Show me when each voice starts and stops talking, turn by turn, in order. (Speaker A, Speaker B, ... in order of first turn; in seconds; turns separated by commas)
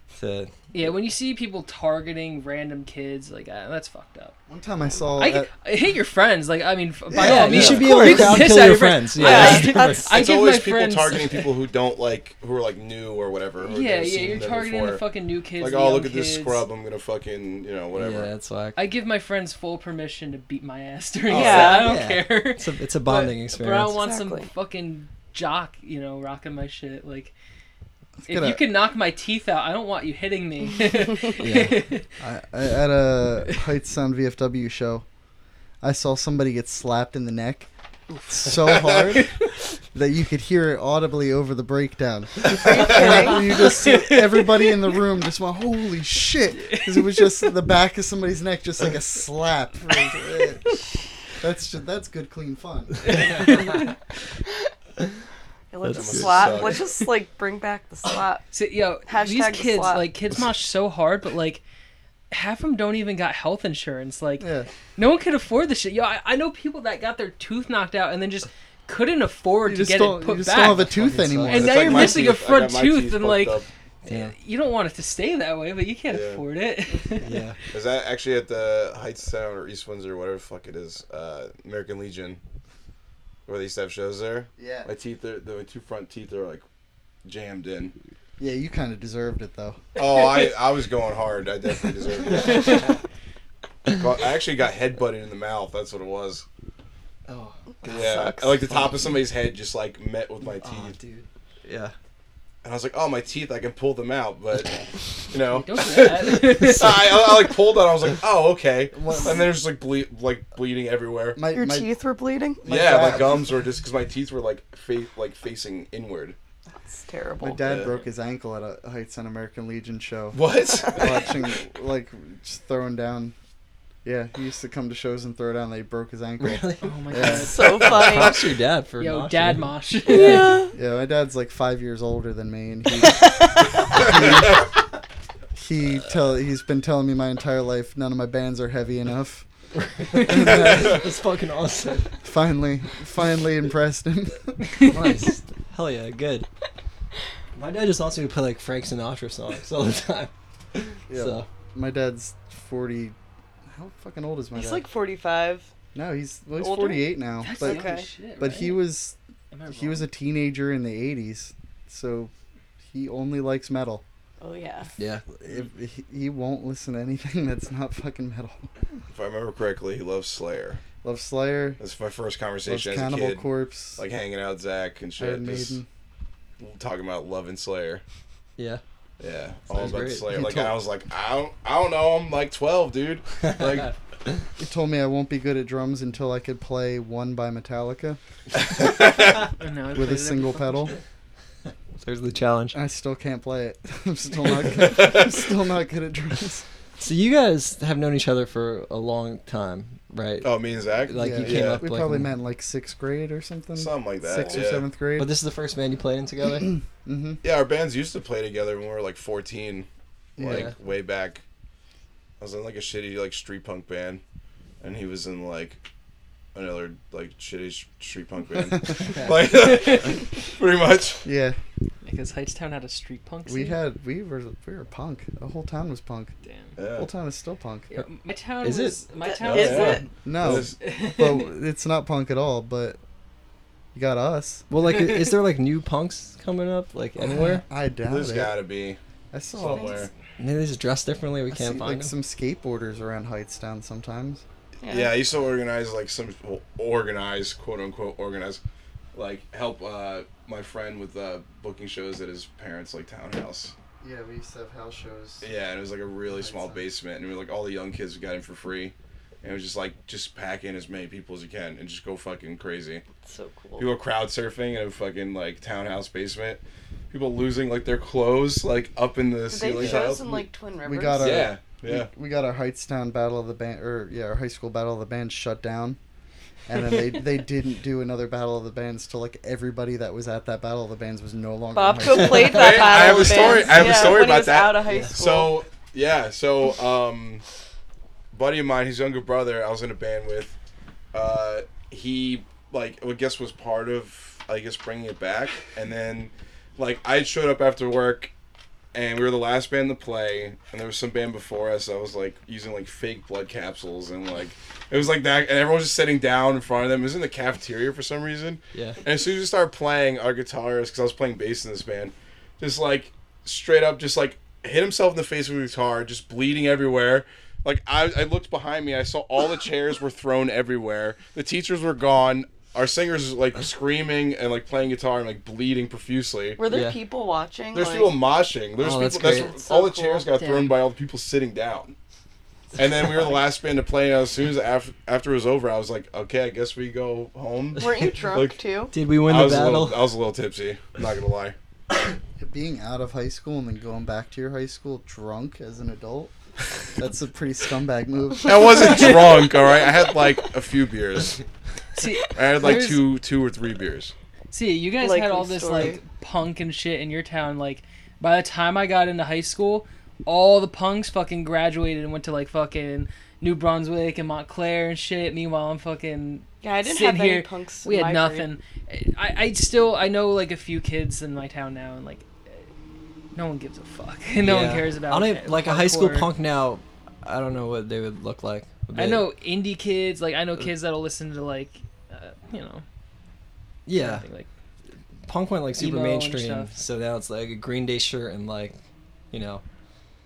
Speaker A: 0.1-0.5, Speaker B: 0.7-4.3, Speaker C: 4.5-5.5, Speaker B: 5.2-11.5, Speaker C: 7.1-8.2, Speaker A: 7.2-10.1, Speaker D: 9.2-10.1, Speaker E: 10.1-15.0, Speaker B: 13.6-16.6, Speaker E: 15.6-18.3, Speaker A: 17.9-18.8, Speaker B: 18.8-27.3, Speaker E: 21.3-21.9, Speaker D: 21.3-21.9, Speaker A: 21.5-23.9, Speaker D: 23.9-24.5, Speaker C: 28.2-28.6, Speaker B: 28.2-32.0, Speaker A: 31.4-31.8, Speaker C: 32.2-35.0, Speaker C: 35.8-37.7, Speaker C: 38.3-39.4, Speaker C: 39.9-50.8, Speaker D: 42.5-43.5, Speaker B: 42.9-44.8, Speaker B: 46.5-47.5, Speaker C: 51.3-53.2, Speaker B: 53.0-53.9, Speaker A: 53.3-53.6, Speaker D: 55.7-58.4, Speaker A: 55.8-56.6, Speaker E: 55.9-56.8, Speaker B: 58.5-61.6, Speaker D: 59.1-60.1, Speaker B: 62.3-71.0, Speaker C: 64.4-64.7, Speaker C: 69.6-72.1, Speaker A: 70.7-72.1, Speaker B: 71.5-77.4, Speaker E: 71.5-73.7, Speaker A: 74.0-74.3, Speaker E: 76.1-76.4, Speaker A: 77.2-77.6, Speaker E: 77.7-82.4, Speaker E: 83.5-86.6, Speaker C: 84.6-84.9, Speaker E: 87.2-87.9, Speaker C: 88.4-89.8, Speaker E: 90.0-92.9, Speaker A: 92.4-92.9, Speaker E: 93.9-96.4, Speaker A: 97.3-99.1, Speaker E: 97.9-101.0, Speaker D: 97.9-98.5, Speaker A: 100.6-101.9, Speaker E: 102.6-111.4, Speaker B: 105.6-107.1, Speaker A: 106.5-106.9, Speaker C: 108.9-109.5, Speaker C: 111.3-111.9, Speaker D: 111.5-112.6, Speaker C: 112.6-113.5, Speaker E: 112.6-116.3, Speaker D: 116.8-117.7, Speaker C: 117.4-123.3, Speaker E: 117.6-117.9, Speaker E: 120.3-121.2, Speaker C: 124.0-127.6, Speaker A: 126.4-130.6, Speaker B: 126.8-127.7, Speaker D: 127.4-128.4, Speaker E: 127.7-128.3, Speaker B: 129.0-130.6, Speaker D: 130.1-130.7, Speaker C: 130.7-134.7, Speaker C: 135.5-139.4, Speaker A: 139.7-142.2, Speaker C: 140.2-141.0, Speaker C: 142.2-144.8, Speaker A: 144.8-146.5, Speaker A: 147.5-151.5, Speaker C: 151.1-153.2, Speaker C: 153.7-154.8, Speaker D: 154.5-155.7, Speaker C: 155.9-159.2, Speaker D: 156.6-157.1, Speaker B: 157.4-158.8, Speaker D: 157.6-158.1, Speaker B: 159.5-160.1, Speaker C: 159.7-162.3, Speaker C: 162.8-164.0, Speaker D: 164.4-164.9, Speaker A: 165.0-165.2, Speaker C: 165.3-168.7, Speaker E: 169.1-170.8, Speaker C: 171.0-171.8, Speaker E: 171.8-175.8, Speaker C: 172.7-174.0, Speaker C: 175.2-175.9, Speaker E: 176.6-178.0, Speaker E: 179.2-183.9, Speaker A: 179.7-180.7, Speaker A: 183.5-184.4, Speaker C: 184.6-188.2, Speaker E: 188.8-189.3, Speaker B: 189.6-190.9, Speaker C: 189.9-190.9, Speaker A: 192.0-192.8, Speaker C: 192.7-196.6, Speaker E: 194.8-195.4, Speaker A: 197.0-200.5, Speaker E: 200.4-201.8, Speaker A: 201.1-202.3, Speaker C: 201.2-205.3, Speaker E: 203.8-204.8, Speaker A: 205.2-206.7, Speaker C: 207.0-207.4, Speaker E: 207.4-211.4, Speaker C: 210.4-210.7, Speaker A: 210.4-210.7, Speaker E: 212.4-214.2, Speaker E: 214.8-215.8, Speaker E: 216.5-221.2, Speaker B: 219.5-220.2, Speaker C: 221.2-221.6, Speaker B: 222.0-223.8, Speaker C: 223.4-226.3, Speaker B: 226.4-226.7, Speaker E: 226.8-227.1, Speaker C: 226.9-227.9, Speaker B: 227.9-230.1, Speaker A: 228.6-229.0, Speaker D: 229.2-230.1, Speaker E: 229.4-230.8, Speaker C: 230.2-233.0, Speaker B: 230.8-231.5, Speaker C: 233.9-234.7, Speaker A: 234.7-237.6, Speaker B: 234.9-235.2, Speaker C: 237.2-238.6, Speaker E: 238.1-239.0, Speaker C: 239.3-240.1, Speaker E: 239.6-240.1, Speaker A: 240.4-242.1, Speaker C: 241.5-244.4, Speaker D: 244.8-245.2, Speaker E: 244.8-248.6, Speaker E: 249.1-253.7, Speaker C: 254.0-255.4, Speaker E: 255.4-263.0, Speaker C: 256.3-256.8, Speaker D: 263.2-263.9, Speaker E: 263.8-270.4, Speaker D: 269.5-271.5, Speaker C: 269.8-276.0, Speaker E: 271.2-272.1, Speaker C: 276.7-283.3, Speaker D: 281.7-285.6, Speaker A: 282.1-283.0, Speaker E: 282.4-287.4, Speaker A: 283.7-284.0, Speaker A: 284.9-285.1, Speaker E: 288.3-290.5, Speaker E: 291.1-298.3, Speaker E: 298.9-326.6, Speaker A: 308.7-309.0, Speaker D: 326.6-328.2, Speaker A: 326.7-327.0, Speaker E: 327.7-331.9, Speaker A: 328.8-329.5, Speaker D: 329.2-330.3, Speaker B: 330.4-330.8, Speaker E: 332.7-338.6, Speaker D: 337.8-338.9, Speaker A: 338.9-340.1, Speaker E: 339.2-341.5, Speaker C: 342.4-346.3, Speaker C: 346.9-349.1, Speaker E: 348.4-351.4, Speaker B: 351.9-353.0, Speaker E: 352.3-354.1, Speaker B: 354.5-372.7, Speaker D: 355.0-356.0, Speaker D: 366.6-368.5, Speaker B: 373.3-376.3, Speaker A: 374.4-379.2, Speaker B: 378.9-382.8, Speaker A: 383.9-384.2, Speaker B: 383.9-384.5, Speaker A: 385.2-388.8, Speaker B: 385.8-386.7, Speaker A: 389.3-389.6